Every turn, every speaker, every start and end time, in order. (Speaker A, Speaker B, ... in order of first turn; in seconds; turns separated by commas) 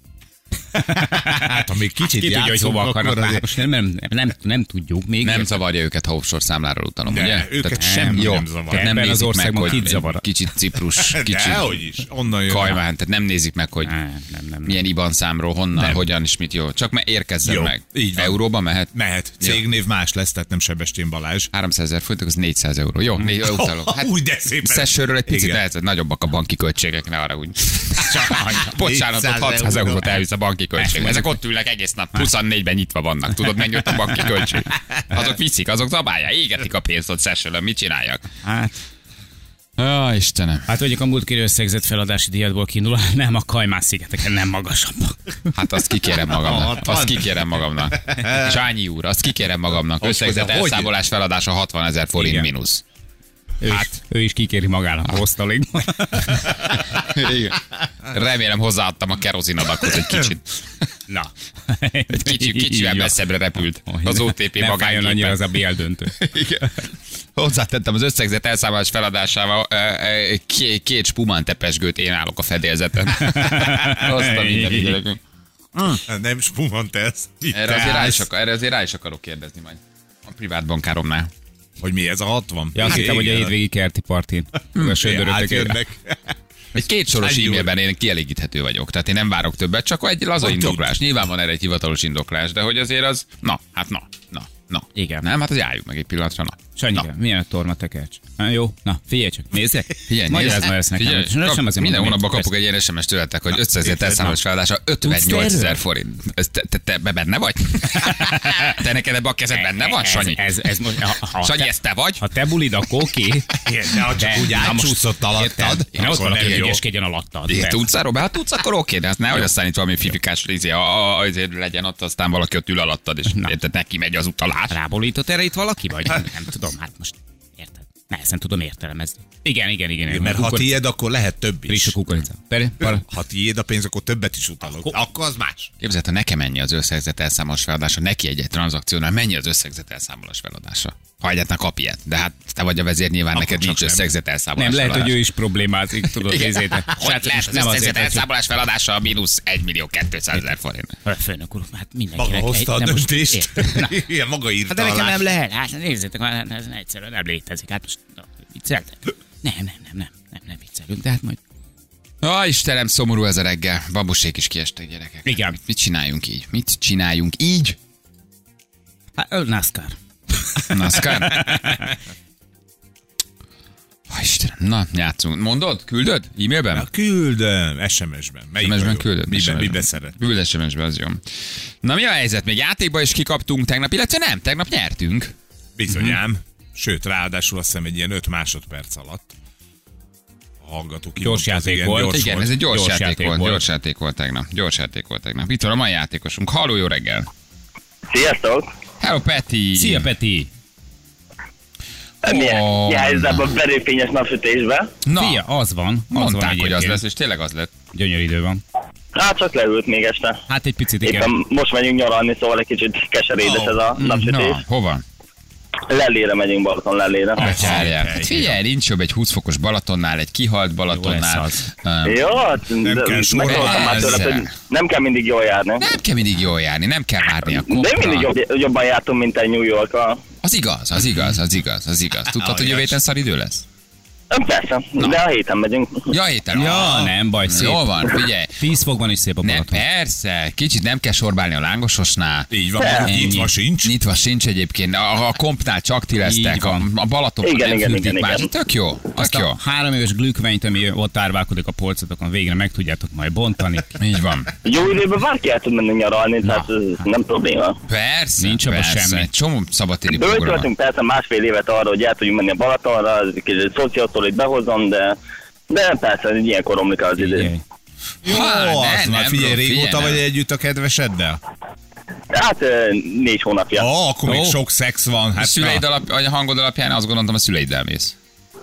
Speaker A: 0.7-5.5, Speaker B: 0.9-3.6, Speaker C: 5.2-11.8, Speaker B: 7.1-8.9, Speaker A: 7.8-10.2, Speaker B: 11.0-12.8, Speaker C: 12.5-13.9, Speaker A: 13.8-14.8, Speaker C: 14.7-19.6, Speaker B: 15.8-16.0, Speaker B: 17.4-18.4, Speaker B: 18.9-21.5, Speaker C: 21.5-38.2, Speaker B: 23.3-25.6, Speaker A: 28.0-28.8, Speaker B: 28.7-30.2, Speaker A: 30.8-31.3, Speaker A: 38.4-38.7, Speaker C: 39.8-40.7, Speaker A: 40.7-45.2, Speaker C: 45.5-52.8, Speaker B: 46.3-47.3, Speaker B: 47.9-48.6, Speaker B: 50.0-50.9, Speaker A: 52.2-52.5, Speaker A: 53.6-56.5, Speaker C: 56.9-60.6, Speaker A: 61.1-63.1, Speaker C: 62.1-65.4, Speaker A: 63.9-66.1, Speaker C: 66.1-75.2, Speaker A: 73.2-75.0, Speaker C: 75.7-76.0, Speaker B: 76.0-78.2, Speaker C: 77.5-81.3, Speaker B: 81.8-83.5, Speaker A: 82.7-85.8, Speaker C: 84.8-85.0, Speaker B: 84.8-86.3, Speaker C: 86.7-96.6, Speaker B: 87.1-87.7, Speaker B: 90.4-91.0, Speaker A: 95.0-95.2, Speaker A: 96.8-102.5, Speaker C: 100.1-110.4, Speaker B: 103.8-104.3, Speaker A: 105.0-105.8, Speaker A: 108.0-108.7, Speaker A: 109.5-117.9, Speaker C: 111.4-112.2, Speaker B: 113.6-116.8, Speaker C: 115.9-116.8, Speaker C: 117.5-124.7, Speaker A: 123.3-123.6, Speaker A: 124.7-130.8, Speaker B: 130.1-131.9, Speaker A: 131.7-133.1, Speaker B: 132.8-135.7, Speaker C: 135.8-145.2, Speaker B: 143.3-144.1, Speaker A: 144.6-148.2, Speaker C: 146.2-150.9, Speaker A: 151.0-154.0, Speaker B: 152.2-155.3, Speaker A: 154.7-161.4, Speaker C: 162.2-167.8, Speaker A: 165.2-165.6, Speaker A: 169.2-171.9, Speaker C: 170.7-171.6, Speaker C: 174.1-176.9, Speaker B: 176.7-180.2, Speaker C: 178.6-181.2, Speaker C: 181.8-185.3, Speaker B: 185.8-189.3, Speaker A: 185.9-186.2, Speaker B: 190.6-192.5, Speaker A: 191.2-193.6, Speaker C: 192.1-197.3, Speaker D: 198.1-198.7, Speaker C: 199.0-200.1, Speaker A: 199.7-200.5, Speaker C: 202.2-203.5, Speaker D: 202.2-204.9, Speaker C: 205.0-205.4, Speaker A: 205.2-207.0, Speaker C: 206.1-207.7, Speaker A: 207.9-208.6, Speaker D: 209.1-210.4, Speaker A: 210.5-211.3, Speaker D: 211.0-214.6, Speaker B: 213.4-213.8, Speaker C: 214.0-215.0, Speaker D: 215.9-217.6, Speaker C: 217.4-222.3, Speaker B: 217.4-218.6, Speaker A: 217.5-217.9, Speaker A: 220.9-221.7, Speaker D: 222.0-225.8, Speaker B: 222.8-224.3, Speaker C: 223.4-224.5, Speaker C: 225.8-228.3, Speaker D: 227.5-230.2, Speaker C: 230.4-233.7, Speaker B: 232.3-233.0, Speaker D: 234.3-236.1, Speaker C: 236.1-238.5, Speaker A: 236.5-237.9, Speaker B: 236.7-237.1, Speaker A: 238.6-239.8, Speaker C: 239.4-242.5, Speaker B: 242.5-243.9, Speaker D: 242.8-243.1, Speaker A: 243.0-243.5, Speaker C: 243.8-249.6, Speaker A: 246.2-246.9, Speaker D: 247.4-248.5, Speaker A: 249.2-253.9, Speaker C: 254.0-254.5, Speaker D: 254.6-257.8, Speaker A: 256.4-256.7, Speaker C: 257.9-260.7, Speaker A: 258.4-259.3, Speaker D: 260.1-265.2, Speaker D: 265.7-267.5, Speaker A: 267.2-267.6, Speaker B: 268.2-271.4, Speaker C: 268.2-270.2, Speaker D: 272.3-273.9, Speaker B: 273.7-275.8, Speaker A: 274.3-274.6, Speaker C: 275.4-278.1